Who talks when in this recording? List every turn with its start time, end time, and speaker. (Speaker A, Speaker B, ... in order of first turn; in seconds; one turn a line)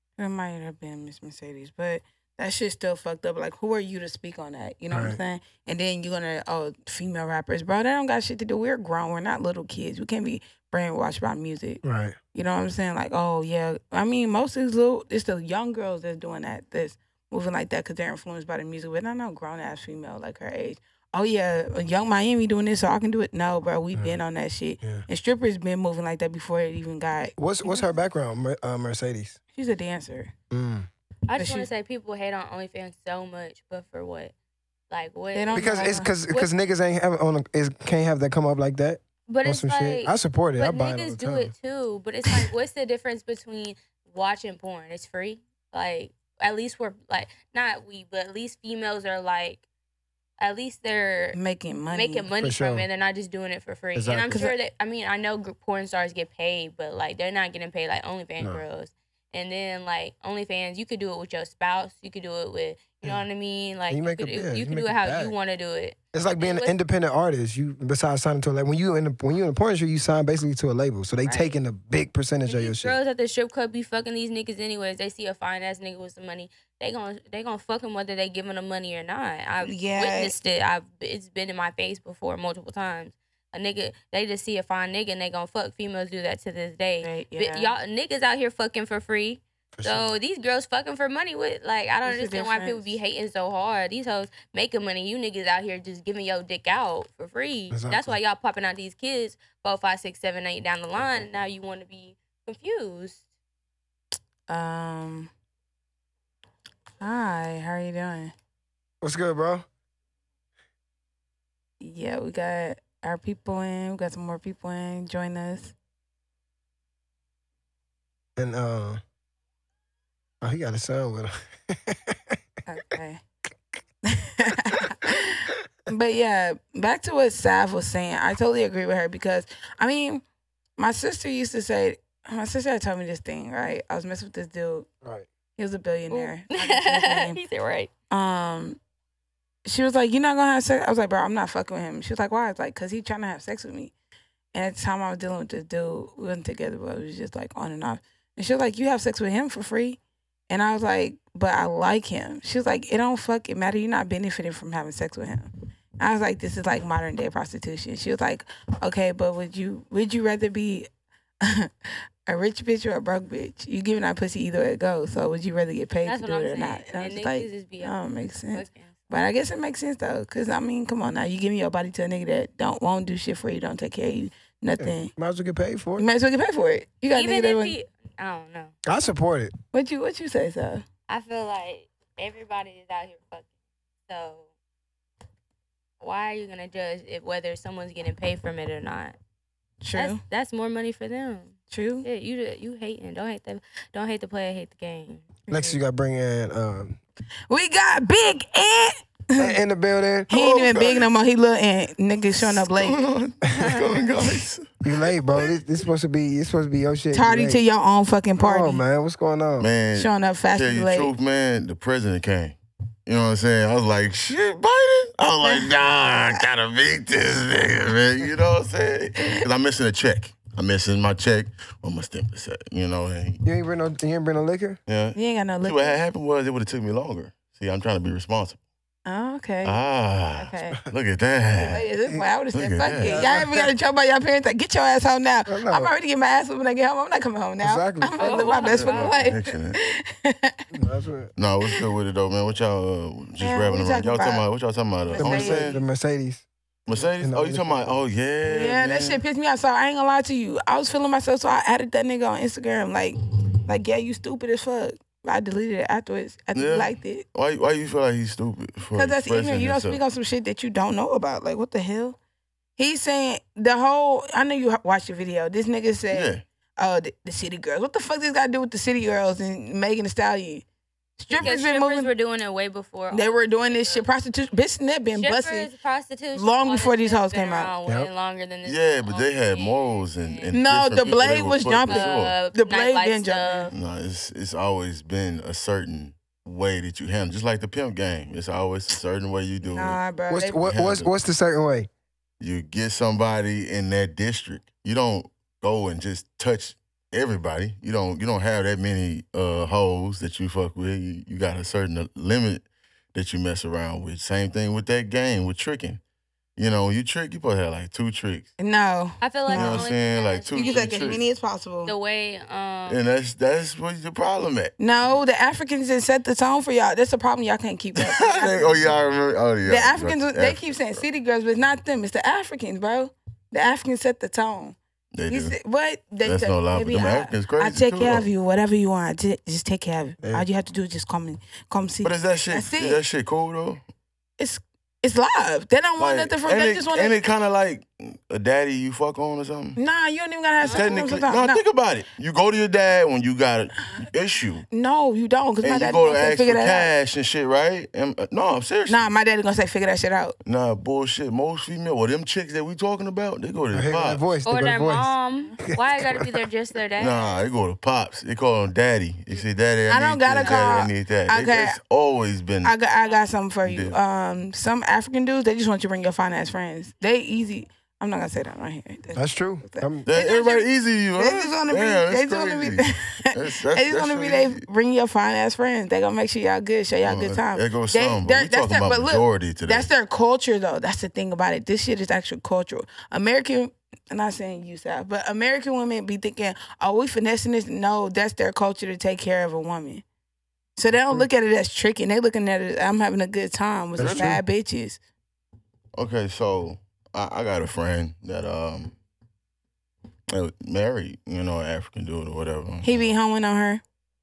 Speaker A: 0.2-11.8
Speaker B: 4.9-5.2
Speaker B: 11.8-12.2
Speaker A: 12.3-27.8
Speaker B: 23.9-24.2
Speaker B: 27.4-29.4
Speaker A: 29.5-30.3
Speaker B: 30.5-30.9
Speaker C: 31.3-34.3
Speaker A: 31.4-31.7
Speaker C: 34.9-36.5
Speaker A: 35.3-36.1
Speaker B: 35.5-41.5
Speaker C: 39.3-49.6
Speaker C: 50.4-51.4
Speaker A: 51.3-52.2
Speaker C: 51.9-66.7
Speaker B: 52.4-52.9
Speaker B: 53.9-54.5
Speaker B: 63.9-65.3
Speaker B: 66.1-73.0
Speaker C: 71.2-71.6
Speaker C: 72.5-103.2
Speaker A: 79.6-80.3
Speaker A: 87.0-87.7
Speaker B: 89.7-90.1
Speaker A: 92.0-93.0
Speaker B: 97.7-98.2
Speaker A: 104.5-105.3
Speaker A: 107.0-108.3
Speaker B: 109.0-109.6
Speaker A: 111.8-115.7
Speaker B: 118.4-119.0
Speaker B: 120.4-122.4
Speaker A: 122.7-123.2
Speaker A: 124.0-130.2
Speaker A: 130.8-134.9
Speaker A: 135.6-137.4
Speaker C: 136.1-137.9
Speaker A: 138.1-138.8
Speaker A: 139.7-143.9
Speaker A: 144.5-160.9
Speaker A: 161.4-175.1
Speaker C: 166.0-167.9
Speaker C: 168.5-168.9
Speaker B: 174.8-176.1
Speaker A: 176.0-177.7
Speaker C: 177.1-178.7
Speaker B: 178.8-179.5
Speaker A: 179.7-180.8
Speaker C: 181.1-183.5
Speaker C: 184.1-184.5
Speaker C: 186.0-189.2
Speaker A: 189.8-190.2
Speaker C: 189.9-195.2
Speaker A: 191.7-192.1
Speaker A: 195.5-195.8
Speaker B: 195.5-197.0
Speaker A: 197.5-199.6
Speaker B: 199.4-200.3
Speaker A: 200.3-203.0
Speaker D: 200.3-201.1
Speaker D: 202.4-204.8
Speaker C: 203.5-203.8
Speaker B: 204.8-207.6
Speaker D: 205.3-205.6
Speaker A: 207.1-208.8
Speaker B: 208.4-209.7
Speaker D: 209.6-223.4
Speaker A: 209.9-211.1
Speaker A: 215.4-215.7
Speaker B: 223.4-224.8
Speaker D: 224.9-228.6
Speaker A: 225.2-226.0
Speaker A: 229.1-229.8
Speaker D: 229.6-231.9
Speaker A: 230.4-230.8
Speaker A: 231.6-240.6
Speaker D: 232.5-233.3
Speaker B: 233.0-233.7
Speaker B: 235.5-235.9
Speaker B: 237.6-238.5
Speaker C: 238.2-239.3
Speaker D: 238.4-239.8
Speaker B: 240.7-241.3
Speaker D: 241.3-245.8
Speaker A: 243.4-244.4
Speaker A: 245.1-245.8
Speaker B: 245.2-246.4
Speaker D: 246.8-249.2
Speaker B: 246.9-248.0
Speaker A: 248.4-257.2
Speaker D: 256.5-260.0
Speaker A: 258.9-262.2
Speaker A: 262.8-270.6
Speaker D: 266.1-266.4
Speaker A: 271.2-272.1
Speaker C: 271.4-274.1
Speaker A: 273.1-275.7
Speaker C: 275.1-280.6
Speaker A: 276.3-277.7
Speaker D: 278.6-282.3
Speaker A: 280.5-283.7
Speaker C: 281.9-283.7
Speaker D: 283.7-290.0
Speaker A: 289.6-290.7
Speaker B: 290.3-291.9
Speaker D: 290.6-291.1
Speaker D: 292.4-306.0
Speaker D: 306.6-308.5
Speaker A: 308.6-309.9
Speaker C: 309.2-311.2
Speaker D: 309.5-311.2
Speaker A: 310.5-311.9
Speaker C: 311.8-313.0
Speaker D: 312.9-314.7
Speaker A: 314.8-318.9
Speaker D: 317.9-321.0
Speaker A: 319.6-324.8
Speaker D: 325.1-325.6
Speaker A: 325.3-333.0
Speaker D: 326.2-328.3
Speaker D: 332.0-333.8
Speaker A: 334.4-337.2
Speaker D: 336.0-339.8
Speaker A: 339.8-341.6
Speaker C: 340.6-340.9
Speaker D: 340.6-344.7
Speaker A: 344.7-346.9
Speaker D: 345.6-349.1
Speaker A: 348.9-350.4
Speaker D: 350.4-354.2
Speaker B: 353.7-355.1
Speaker C: 354.4-357.2
Speaker B: 355.6-356.4
Speaker D: 357.0-362.7
Speaker A: 359.9-361.8
Speaker A: 362.6-390.0
Speaker D: 363.6-364.0
Speaker B: 369.1-370.0
Speaker D: 370.1-374.6
Speaker D: 377.0-379.9
Speaker A: 390.8-395.0
Speaker B: 390.9-391.3
Speaker B: 394.0-394.4
Speaker D: 394.0-394.4
Speaker D: 395.9-398.9
Speaker D: 400.3-403.1
Speaker A: 402.8-403.8